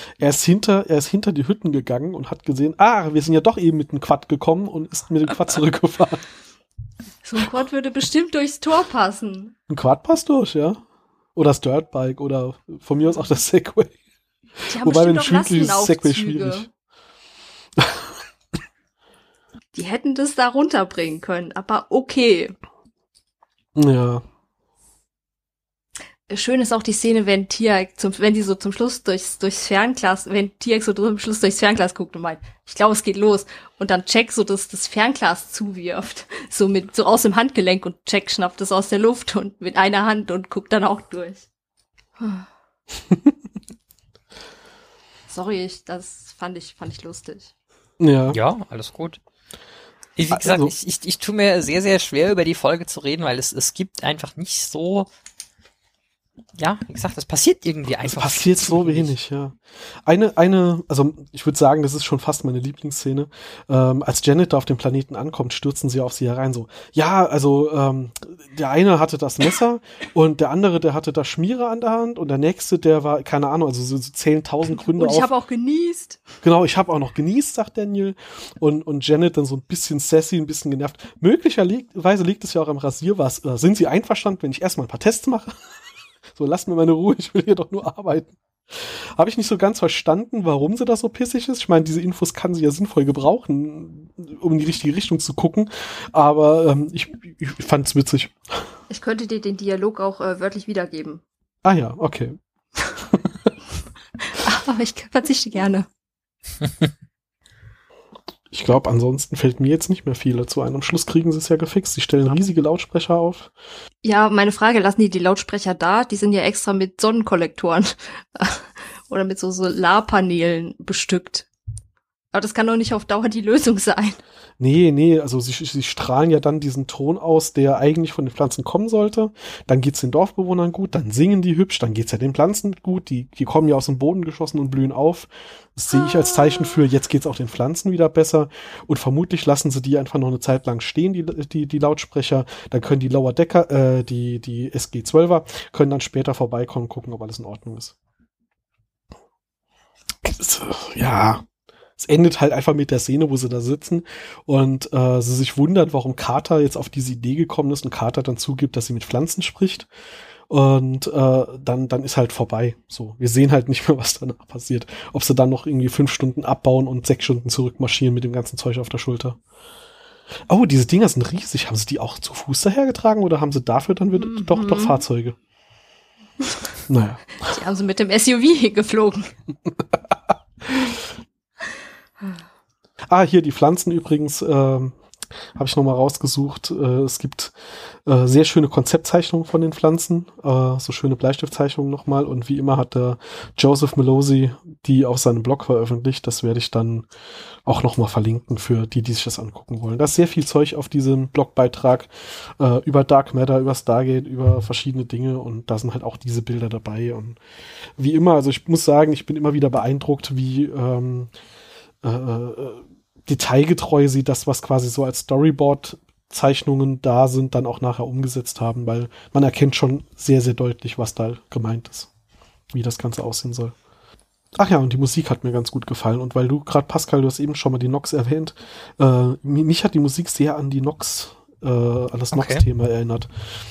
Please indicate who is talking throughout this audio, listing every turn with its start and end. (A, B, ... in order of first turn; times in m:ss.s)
0:00.2-0:06.2 A
0:07.2-0:09.5 B
0:09.7-0:10.8 A
0:11.3-0:13.9 A
0:14.7-0:16.7 B
0:14.8-0:16.7 A
0:17.8-0:18.0 A
0:19.7-0:22.6 B
0:23.7-0:24.2 A
0:26.3-0:41.4 B
0:45.3-0:47.5 B
0:48.0-0:48.4 A
0:48.3-0:49.2 C
0:50.2-0:55.1 C
0:50.3-0:50.7 A
0:56.6-0:59.1 C
0:58.0-1:15.3 A
1:14.7-1:16.2 B
1:16.4-1:25.6 A
1:26.3-1:38.7 A
1:38.9-1:41.2 B
1:41.6-1:42.4 A
1:43.0-1:43.5 A
1:44.3-1:45.9 B
1:48.5-1:53.5 A
1:54.0-2:01.5 B
2:02.3-2:04.2 B
2:04.6-2:27.9 A
2:30.2-2:31.4 A
2:32.0-2:39.9 A
2:40.5-2:49.4 A
2:50.5-2:55.4 A
2:54.2-2:55.0 B
2:56.9-2:57.6 A
2:57.4-2:59.3 B
3:03.1-3:05.0 A
3:05.5-3:17.1 A
3:17.6-3:27.4 A
3:28.0-3:31.3 A
3:32.0-3:42.1 A
3:42.7-3:43.7 A
3:44.6-3:53.3 A
3:52.3-3:52.6 C